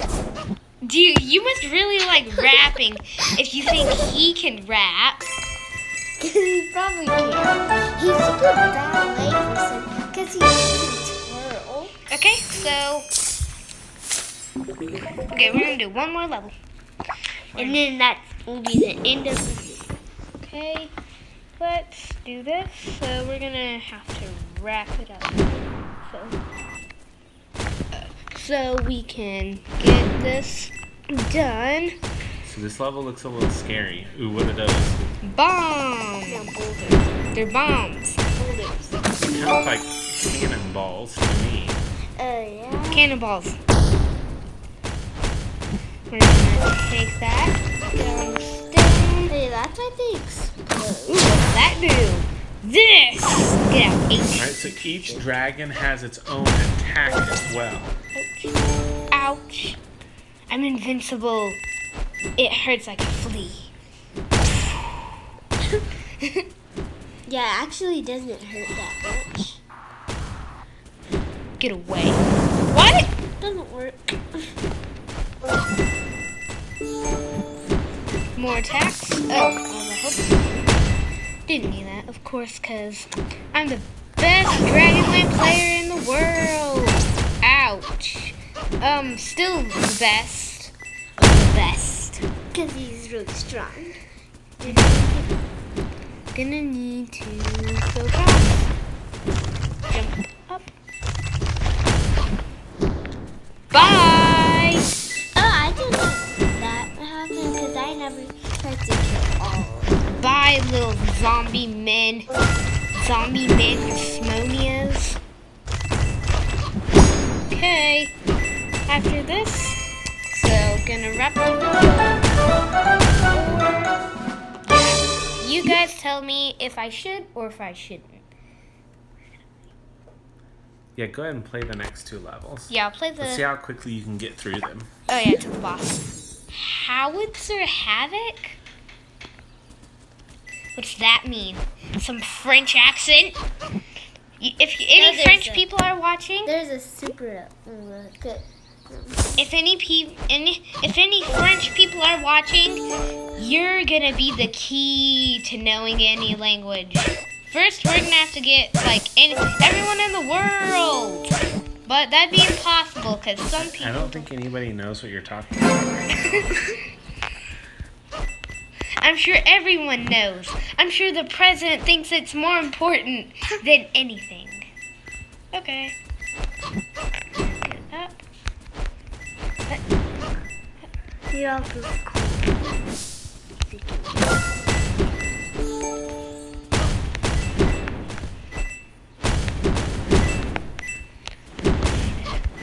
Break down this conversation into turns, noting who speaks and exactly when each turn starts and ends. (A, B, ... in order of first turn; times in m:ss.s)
0:00.8-0:05.3 A
0:06.2-0:12.0 B
0:12.1-0:13.1 A
0:15.3-0:16.5 A
0:17.5-0:17.8 A
0:17.6-0:19.9 B
0:20.4-0:20.9 A
0:21.6-0:26.4 A
0:27.9-0:31.9 A
0:32.4-0:35.0 C
0:35.2-0:36.5 A
0:36.2-0:37.1 B
0:37.3-0:38.2 A
0:38.4-0:39.0 B
0:39.2-0:41.8 C
0:42.2-0:43.1 B
0:42.9-0:43.6 A
0:46.1-0:49.3 A
0:49.3-0:51.4 B
0:51.1-0:55.2 A
0:54.4-0:58.0 C
0:58.1-0:58.6 A
0:59.1-0:59.8 A
1:00.5-1:01.6 A
1:02.4-1:03.7 A
1:06.2-1:06.4 A
1:07.2-1:09.6 B
1:11.6-1:13.1 A
1:13.4-1:14.5 B
1:18.3-1:20.6 A
1:21.5-1:32.2 A
1:32.5-1:34.0 B
1:34.6-1:35.3 B
1:34.6-1:35.1 A
1:36.3-1:38.7 A
1:39.9-1:40.7 A
1:43.7-1:44.8 A
1:45.3-1:50.0 B
1:50.1-1:52.3 A
1:52.9-1:55.2 A
1:57.5-1:58.1 A
1:58.9-1:59.8 A
2:00.3-2:02.3 A
2:03.3-2:04.0 A
2:04.6-2:08.2 A
2:11.0-2:14.9 C
2:12.7-2:13.4 A
2:15.1-2:18.6 A
2:20.7-2:23.4 A
2:24.4-2:26.5 A
2:24.9-2:25.7 B
2:26.4-2:29.4 B
2:29.4-2:32.8 A
2:33.4-2:41.3 A
2:41.8-2:44.3 A
2:43.5-2:46.6 C
2:46.3-2:46.8 A
2:49.0-2:54.7 A
2:55.5-2:56.0 A
2:57.3-2:58.2 A
3:01.3-3:02.8 B
3:03.6-3:04.5 B
3:11.9-3:12.4 A